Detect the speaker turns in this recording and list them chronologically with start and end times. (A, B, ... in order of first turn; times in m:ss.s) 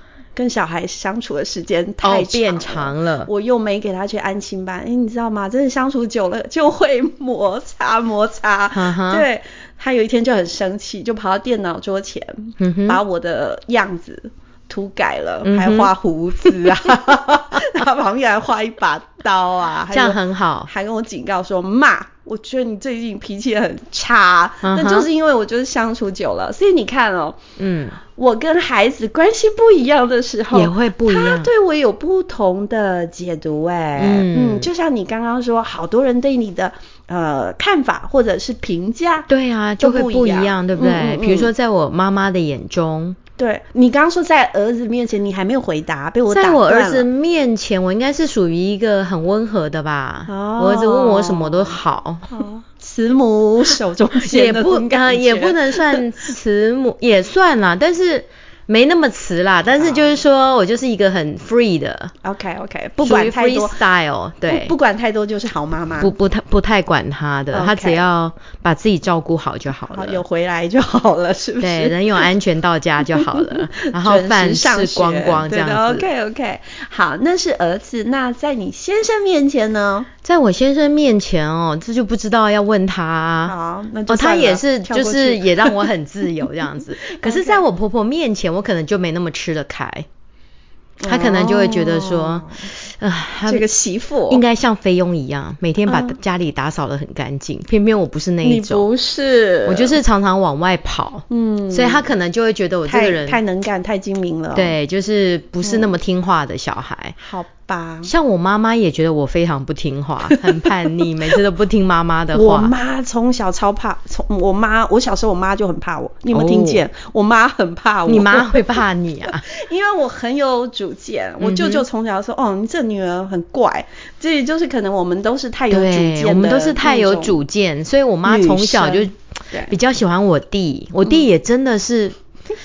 0:00.3-0:27.4 A
0:02.0-0:03.3 B
0:08.7-0:09.2 B
0:12.6-0:13.0 B
0:15.4-0:15.9 B
0:16.4-0:17.6 B
0:19.9-0:20.7 B
0:24.6-0:25.1 B
0:27.6-0:28.0 B
0:28.1-0:39.3 A
0:30.5-0:31.5 B
0:34.0-0:34.7 B
0:39.3-0:43.2 B
0:39.8-0:41.5 A
0:43.4-0:47.1 A
0:46.3-0:52.3 B
0:50.3-0:51.8 A
0:52.3-0:56.3 A
0:54.2-1:02.1 B
0:59.8-1:00.1 A
1:02.2-1:03.8 A
1:03.0-1:04.7 B
1:04.5-1:06.1 A
1:06.0-1:10.2 B
1:07.5-1:08.1 A
1:09.9-1:12.3 A
1:11.6-1:16.1 B
1:13.0-1:20.1 A
1:20.2-1:23.5 B
1:23.4-1:25.9 A
1:24.1-1:30.1 B
1:27.0-1:27.6 A
1:31.0-1:32.6 A
1:31.1-1:33.6 B
1:33.4-1:34.4 A
1:34.3-1:38.8 B
1:35.9-1:36.2 A
1:38.4-1:40.0 A
1:39.6-1:43.4 B
1:41.3-1:42.1 A
1:42.9-1:44.7 A
1:44.5-1:47.2 B
1:45.6-1:45.9 A
1:47.2-1:48.1 A
1:48.0-1:52.7 B
1:50.3-1:51.1 A
1:52.3-1:58.6 A
1:56.3-1:56.8 B
1:58.1-1:59.4 B
1:59.4-2:07.4 A
2:01.4-2:01.8 B
2:05.7-2:09.1 B
2:08.2-2:09.7 A
2:09.7-2:12.2 B